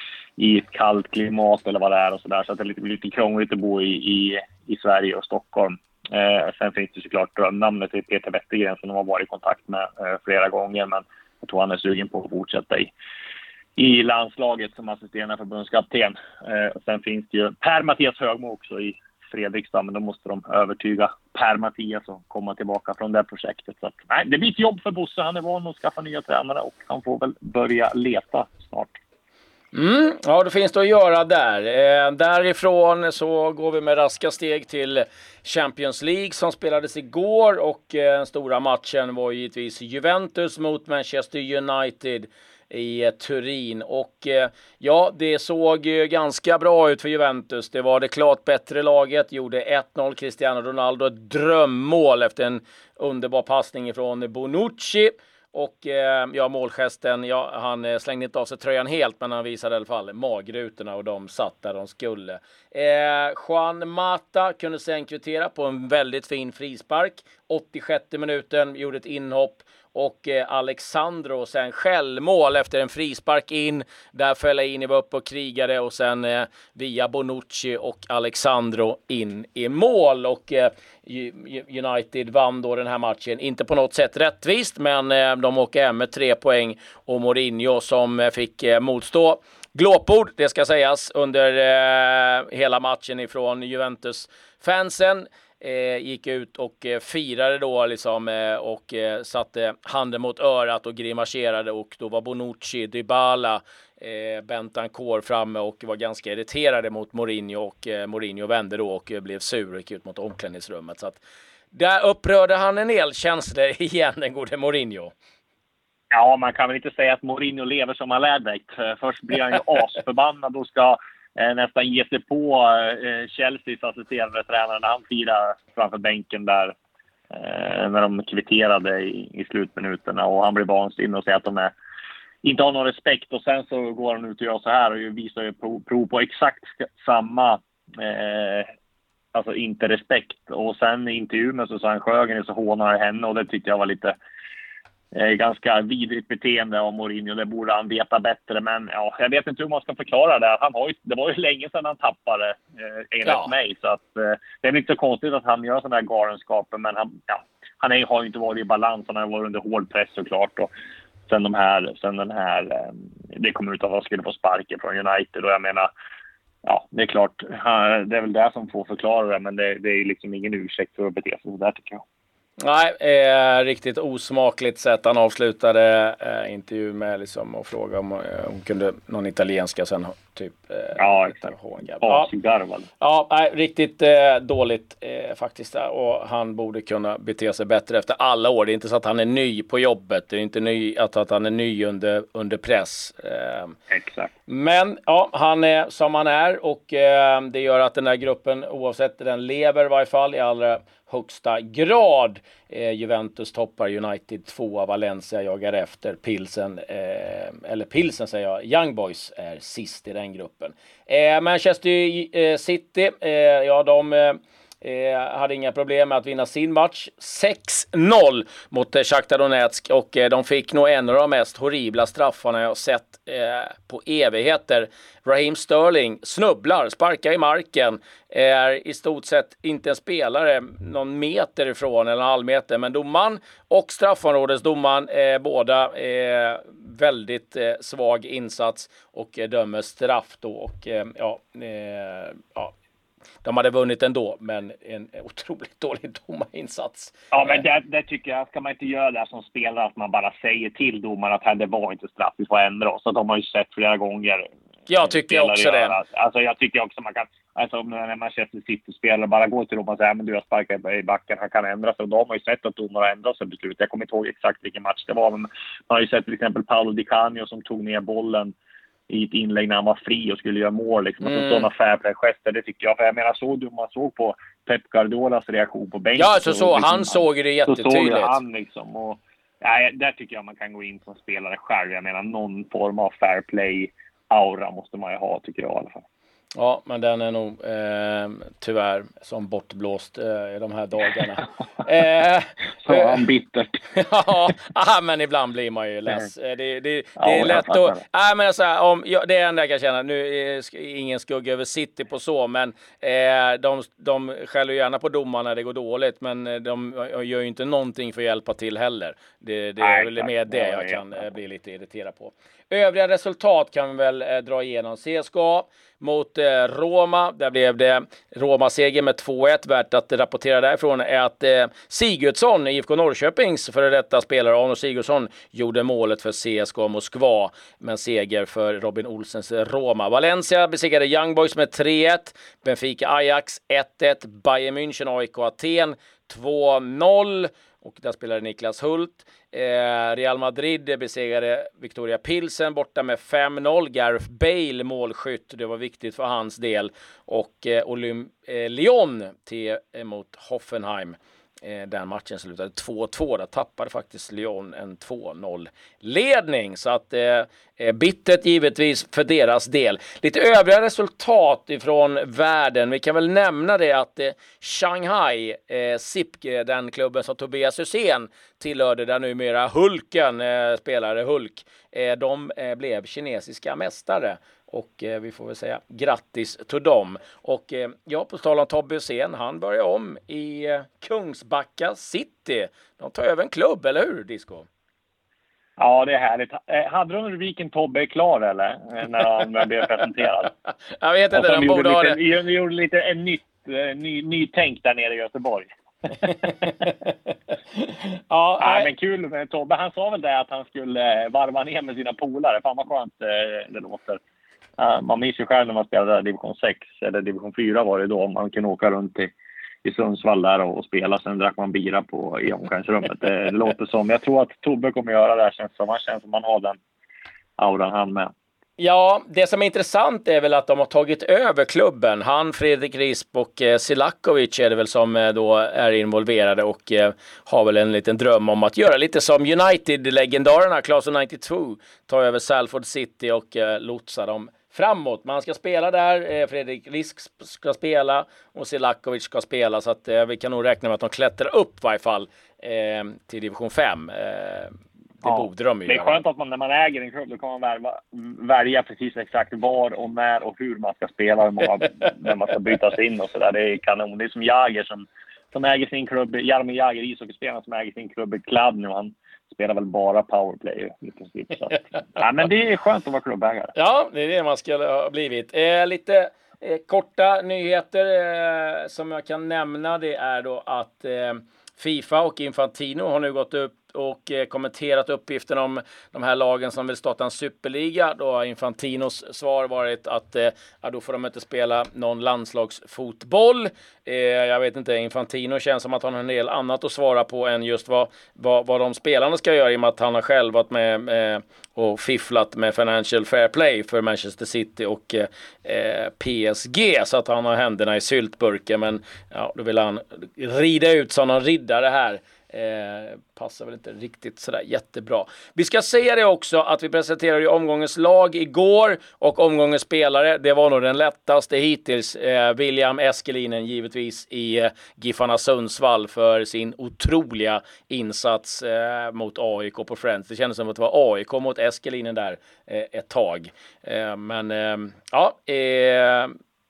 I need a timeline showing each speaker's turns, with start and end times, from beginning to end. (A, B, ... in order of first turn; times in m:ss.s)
0:00.4-0:12.9 A
0:13.8-0:29.0 A
0:29.7-1:51.2 B
1:51.7-1:55.1 B
1:56.1-2:06.7 A
2:07.3-2:11.7 A
2:12.4-2:18.7 A
2:19.3-2:24.2 A
2:25.1-2:40.7 A
2:33.2-2:33.5 B
2:41.3-2:45.9 A
2:46.6-2:52.0 A
2:52.6-3:02.3 B
3:01.0-3:02.9 A
3:03.0-3:13.8 B
3:13.9-3:14.3 A
3:14.5-4:02.7 B
4:03.4-4:07.6 B
4:07.3-4:14.5 A
4:14.9-4:16.0 B
4:15.1-4:28.5 A
4:29.1-4:46.0 A
4:31.2-4:31.7 B
4:36.1-4:38.4 B
4:46.6-4:53.2 B
4:52.8-4:53.8 A
4:53.9-6:24.7 B
4:57.2-4:58.0 A
5:09.8-5:11.3 A
6:25.8-6:30.5 A
6:30.6-6:32.2 B
6:31.3-6:35.7 A
6:36.2-6:38.9 B
6:38.6-6:44.2 A
6:44.8-6:49.3 A
6:49.8-6:56.8 A
6:57.6-6:58.3 A
6:58.8-7:26.2 B
7:25.2-7:43.7 A
7:43.7-8:46.3 B